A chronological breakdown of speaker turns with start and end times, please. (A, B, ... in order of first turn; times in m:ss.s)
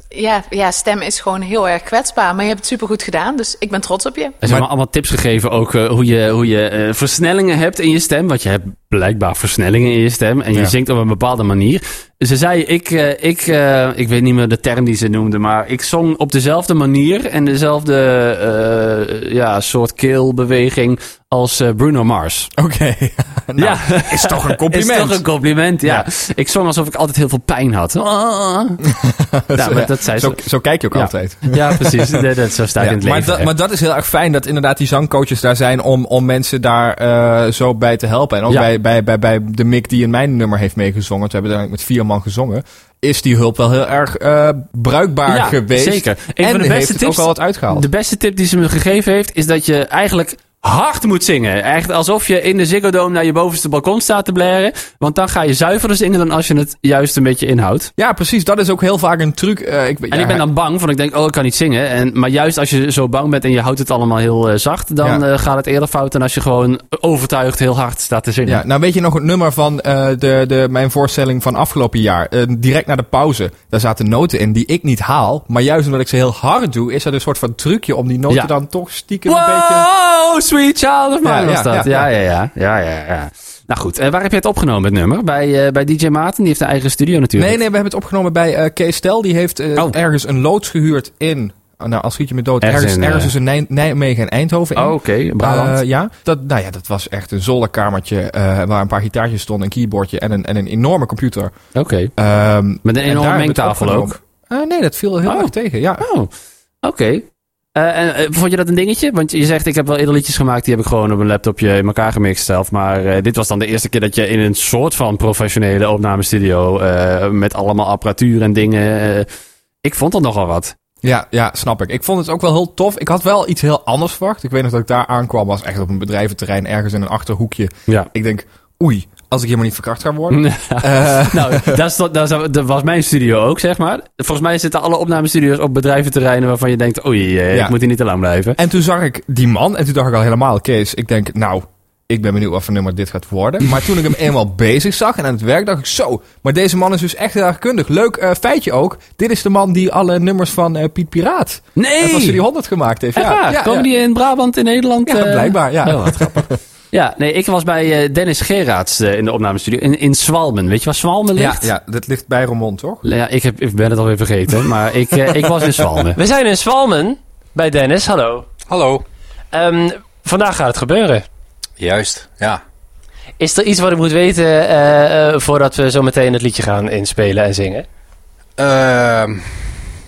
0:00.1-0:04.3 A
0:04.4-0:22.5 B
0:22.6-0:25.2 C
0:23.6-0:28.8 B
0:29.0-0:47.8 C
0:29.5-0:30.4 B
0:30.9-0:33.5 B
0:45.3-0:57.9 B
0:58.0-1:00.4 C
1:00.1-1:08.6 B
1:08.4-1:19.9 C
1:19.2-1:27.6 B
1:21.2-1:22.1 C
1:27.4-1:41.5 C
1:32.6-1:33.3 B
1:34.8-1:35.8 B
1:41.7-1:42.1 B
1:42.1-1:46.0 C
1:42.8-1:44.2 B
1:45.2-1:46.3 B
1:46.8-1:59.3 B
1:59.8-2:00.7 B
2:01.0-2:11.8 C
2:10.3-2:18.6 B
2:18.6-2:33.9 C
2:31.8-2:32.4 B
2:33.1-2:36.3 B
2:35.0-2:36.6 C
2:36.9-2:41.7 B
2:41.3-2:43.0 C
2:43.0-2:46.2 B
2:46.2-2:48.5 D
2:48.7-2:49.0 E
2:49.5-2:51.2 D
2:51.8-2:52.6 E
2:53.4-2:57.8 D
2:58.6-2:59.5 E